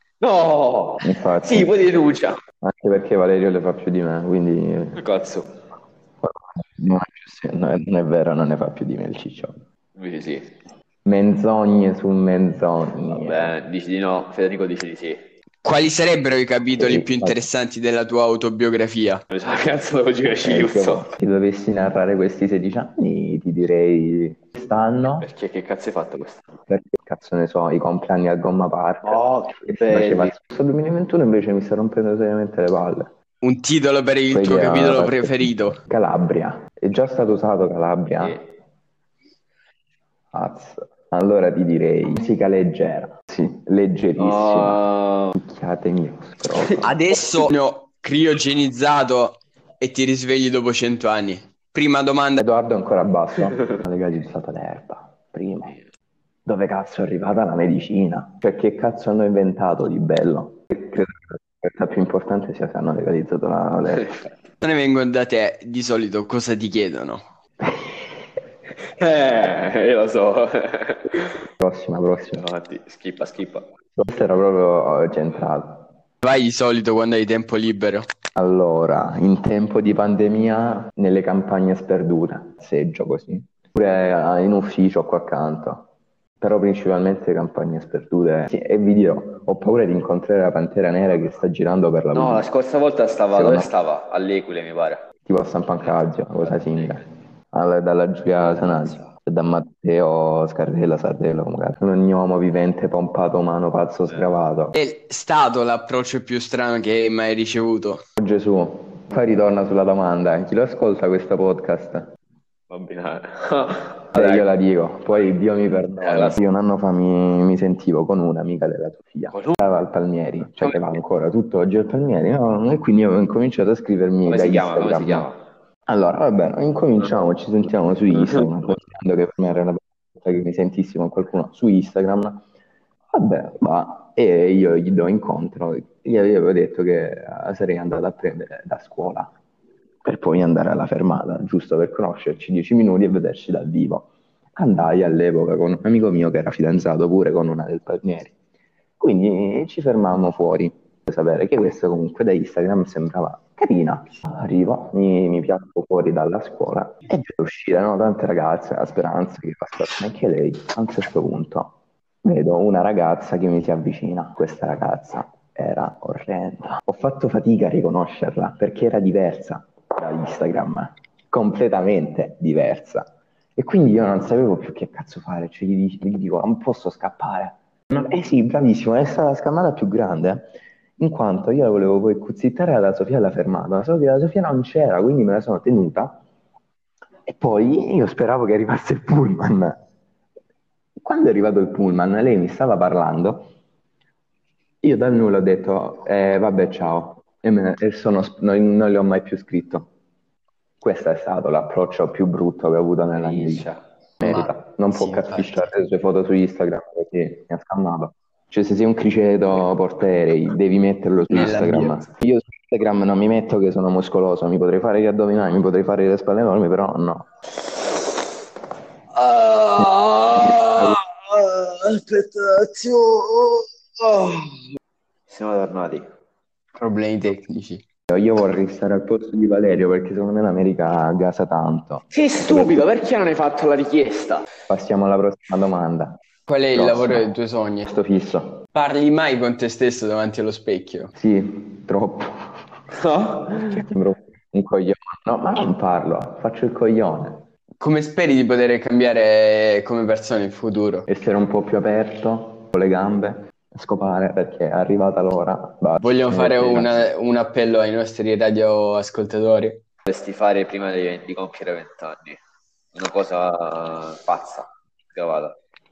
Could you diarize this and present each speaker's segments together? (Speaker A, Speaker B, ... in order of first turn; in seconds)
Speaker A: 0.2-2.4, 5.0-5.5, 9.9-10.6, 13.1-15.2, 19.3-21.1, 25.2-26.4, 29.0-30.3, 38.2-38.5, 44.2-45.3, 63.9-64.3, 68.8-71.3, 72.3-73.7, 92.1-95.1, 95.8-97.0, 98.3-99.1, 112.7-114.5, 116.0-116.4, 119.3-119.6, 124.2-125.4, 128.1-128.5, 203.1-203.8, 219.1-224.6, 225.3-226.1, 232.1-234.5, 242.9-243.8, 260.1-262.4, 262.9-265.6
Speaker B: 1.0-1.9, 2.6-5.0, 6.2-9.6, 11.0-13.6, 16.8-17.5, 20.2-25.3, 26.7-33.1, 34.3-38.4, 40.3-44.8, 45.3-46.9, 52.4-55.8, 56.5-64.2, 71.6-72.4, 73.9-75.9, 78.3-85.9, 86.4-92.4, 93.3-93.7, 95.2-104.8, 108.2-112.1, 114.1-125.3, 125.9-132.4, 133.1-139.3, 140.0-148.3, 149.0-186.2, 187.2-189.8, 191.0-193.5, 194.8-199.9, 200.8-203.7, 204.2-217.3, 228.1-232.9, 234.7-236.2, 236.7-238.6, 241.1-242.4, 243.6-247.5, 251.1-257.1
Speaker C: 15.6-19.2, 33.4-35.8, 46.8-52.4, 64.6-67.2, 76.2-78.1, 104.7-108.0, 204.2-205.7, 211.3-212.1, 226.7-227.8, 236.5-237.9, 238.7-241.1, 247.8-251.1, 256.0-259.8